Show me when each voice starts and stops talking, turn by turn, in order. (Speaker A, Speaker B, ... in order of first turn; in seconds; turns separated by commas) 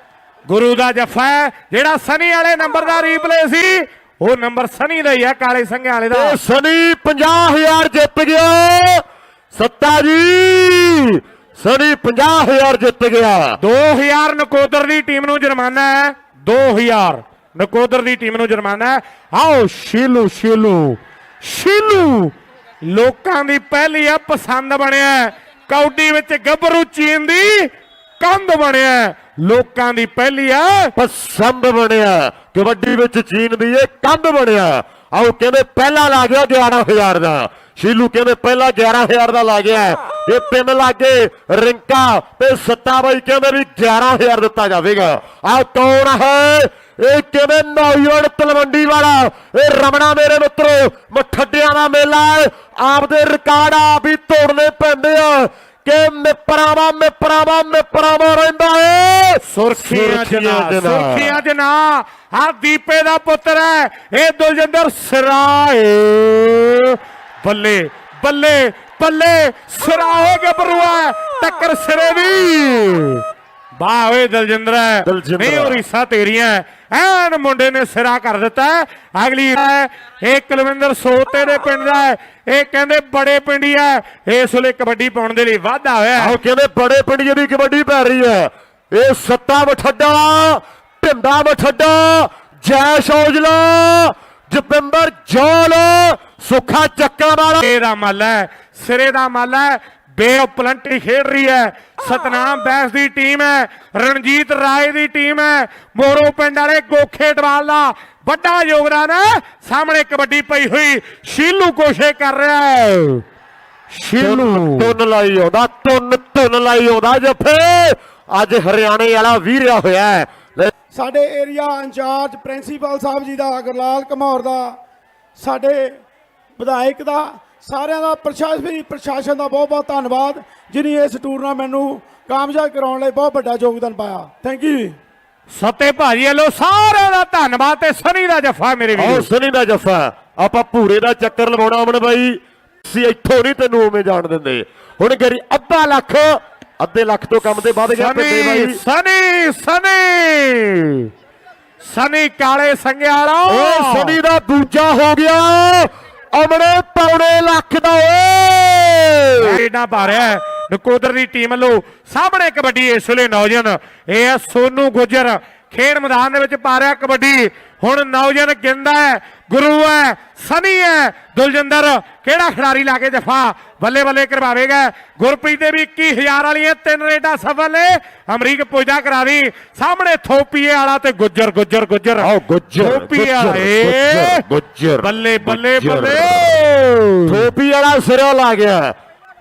Speaker A: 0.5-6.4, Speaker B: 6.1-13.6, Speaker A: 13.6-30.9, Speaker B: 30.9-61.4, Speaker A: 59.4-73.2, Speaker A: 73.8-86.3, Speaker B: 75.0-75.8, Speaker B: 86.2-97.7, Speaker A: 97.6-113.2, Speaker A: 113.9-115.0, Speaker B: 114.2-120.7, Speaker C: 120.9-124.8, Speaker C: 125.4-126.0, Speaker C: 126.6-135.0, Speaker A: 135.5-139.3, Speaker B: 138.9-148.8, Speaker A: 147.6-151.1, Speaker A: 151.8-154.2, Speaker B: 153.5-159.6, Speaker A: 159.4-184.4, Speaker B: 182.2-186.5, Speaker A: 185.0-187.5, Speaker B: 187.3-188.9